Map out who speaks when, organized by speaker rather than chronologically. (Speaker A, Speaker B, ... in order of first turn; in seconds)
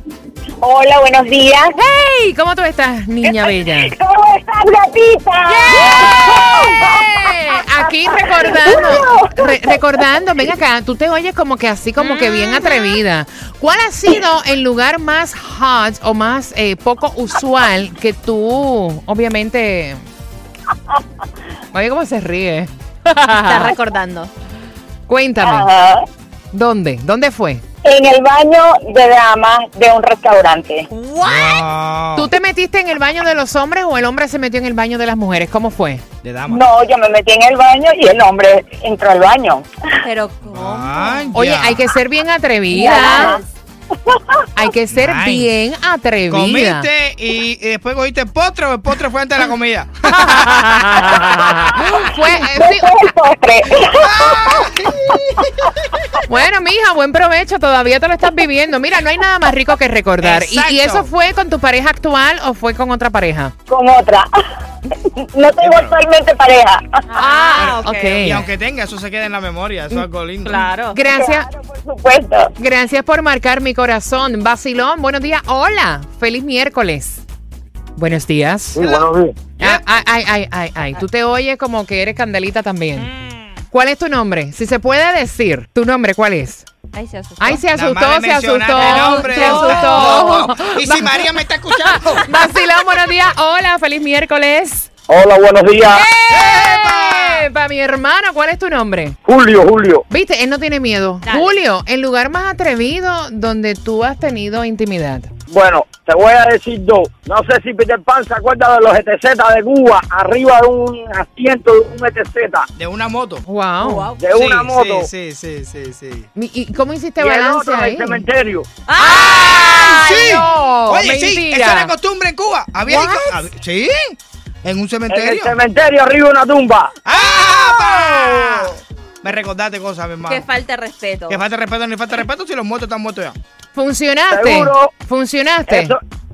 Speaker A: 0.6-1.7, 3.2-7.1, 7.8-9.8, 25.4-26.1, 27.8-30.9, 36.5-39.7, 42.7-43.4, 44.1-44.4, 52.5-54.7, 63.7-64.3, 65.0-67.0, 71.0-72.5
Speaker B: 1.7-3.9, 5.5-20.0, 21.7-23.7, 25.1-25.7, 26.5-27.6, 32.1-36.0, 41.3-43.4, 44.5-46.9, 50.7-51.1, 51.7-52.9, 56.2-63.5, 67.2-68.5, 70.9-71.5, 72.6-77.2, 78.0-79.1, 79.6-83.1, 83.7-86.7, 87.4-91.3, 91.9-94.9, 95.8-99.2, 100.1-105.3, 113.5-114.1, 116.3-118.3, 119.0-121.9, 122.8-123.4, 133.7-135.9
Speaker C: 12.0-12.8, 23.4-24.3, 30.9-31.6, 40.0-41.4, 42.8-43.5, 67.1-68.4, 70.4-71.0, 83.0-83.5, 86.9-87.6, 88.8-90.4, 101.2-101.5, 113.8-114.3, 118.9-120.2, 130.3-131.4
Speaker D: 31.2-32.3, 36.2-36.6, 40.5-42.0, 44.9-45.5, 46.3-51.2, 53.9-55.8, 60.2-61.1, 65.6-65.9, 67.5-70.6, 87.7-92.3, 96.3-97.5, 112.8-113.4, 114.3-116.3, 119.4-125.5, 127.0-130.5, 131.3-133.4
Speaker E: 78.8-79.4, 95.1-96.1, 99.2-100.0, 105.5-112.7, 114.2-115.1, 117.2-118.7, 125.1-126.9, 134.3-134.9, 135.7-136.0